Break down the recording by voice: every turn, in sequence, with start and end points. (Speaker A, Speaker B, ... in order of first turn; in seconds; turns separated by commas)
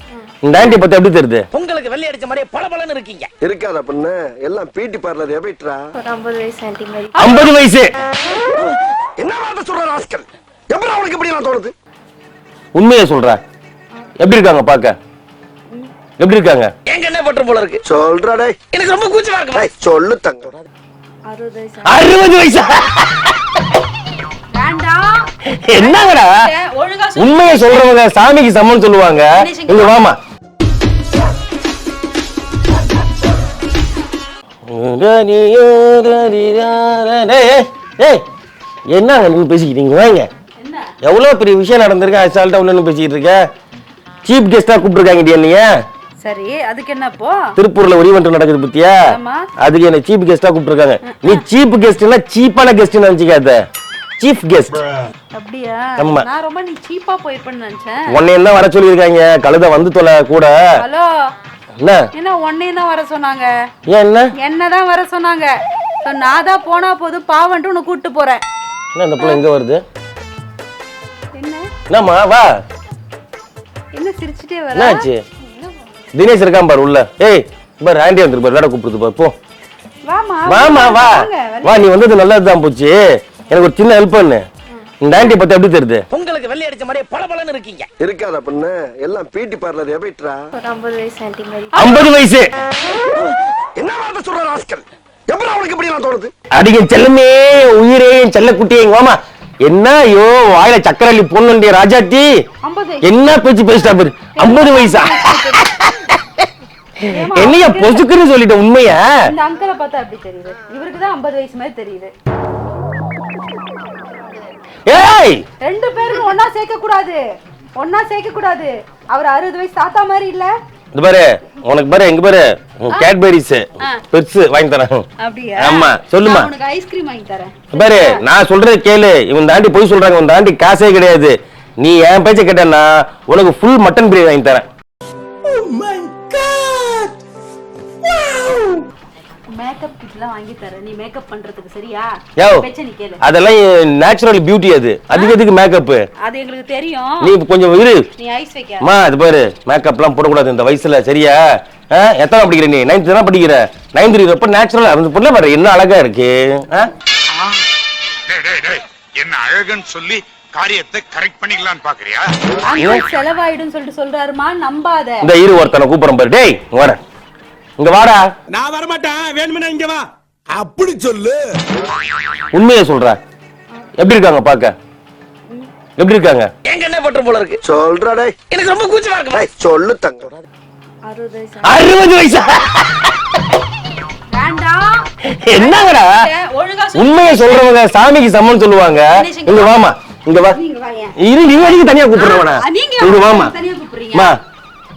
Speaker A: 0.4-1.5, Speaker B: 1.5-3.3, Speaker C: 3.4-5.8, Speaker D: 6.0-7.1, Speaker E: 7.1-7.5, Speaker A: 7.2-7.9, Speaker C: 9.2-11.7, Speaker A: 12.7-13.4, Speaker A: 14.2-14.9, Speaker A: 16.2-16.7, Speaker B: 16.9-17.8, Speaker C: 17.8-18.6, Speaker B: 18.7-19.7, Speaker C: 19.5-20.6, Speaker D: 21.3-22.0, Speaker A: 21.8-23.6, Speaker E: 24.5-27.9, Speaker A: 25.5-26.4, Speaker A: 27.2-30.2, Speaker E: 29.3-30.0, Speaker A: 34.7-38.2, Speaker A: 38.9-40.3, Speaker E: 40.6-40.9, Speaker A: 41.0-43.4, Speaker A: 44.2-45.7, Speaker E: 46.2-47.5, Speaker A: 47.6-49.1, Speaker E: 49.1-49.5, Speaker A: 49.6-53.6, Speaker E: 51.0-51.4, Speaker A: 54.2-54.8, Speaker E: 55.3-58.0, Speaker A: 56.0-56.3, Speaker A: 58.1-60.6, Speaker E: 60.8-61.1, Speaker A: 61.8-62.1, Speaker E: 62.1-63.5, Speaker A: 63.9-64.3, Speaker E: 64.4-68.4, Speaker A: 68.9-69.8, Speaker E: 71.3-71.7, Speaker A: 71.9-72.5, Speaker E: 73.9-75.1, Speaker A: 74.7-75.2, Speaker A: 76.1-79.3, Speaker E: 80.1-81.9, Speaker A: 80.5-84.4, Speaker A: 85.0-86.0, Speaker B: 86.1-87.9, Speaker C: 88.0-90.4, Speaker D: 90.5-91.8, Speaker E: 91.7-92.1, Speaker A: 91.7-92.5, Speaker C: 93.8-96.3, Speaker A: 96.5-102.3, Speaker E: 102.6-103.1, Speaker A: 103.0-106.2, Speaker E: 104.3-105.6, Speaker A: 107.0-109.1, Speaker E: 107.1-108.0, Speaker E: 109.3-112.1, Speaker A: 114.9-115.4, Speaker E: 115.6-117.2, Speaker E: 117.8-120.5, Speaker A: 120.9-125.0, Speaker E: 125.2-128.2, Speaker A: 125.6-126.5, Speaker A: 127.7-134.6, Speaker A: 135.6-136.7, Speaker A: 138.2-138.6, Speaker E: 139.5-143.2, Speaker A: 142.4-142.7, Speaker A: 143.2-146.1, Speaker E: 145.1-145.4, Speaker E: 146.2-147.3, Speaker A: 147.2-148.1, Speaker E: 148.2-148.9, Speaker A: 148.8-151.4, Speaker A: 151.9-156.9, Speaker F: 158.3-162.3, Speaker E: 162.6-165.3, Speaker A: 165.2-167.0, Speaker A: 167.8-168.2, Speaker G: 168.5-171.4, Speaker A: 172.5-173.2, Speaker A: 174.0-174.7, Speaker A: 176.0-176.5, Speaker B: 176.6-177.6, Speaker C: 177.6-178.3, Speaker B: 178.5-179.5, Speaker C: 179.3-180.4, Speaker D: 181.0-181.8, Speaker A: 181.6-183.1, Speaker E: 184.3-187.7, Speaker A: 185.3-186.1, Speaker A: 186.9-190.6, Speaker E: 189.1-189.8, Speaker E: 190.5-191.1, Speaker A: 191.2-193.5, Speaker E: 192.1-194.3, Speaker A: 194.1-194.4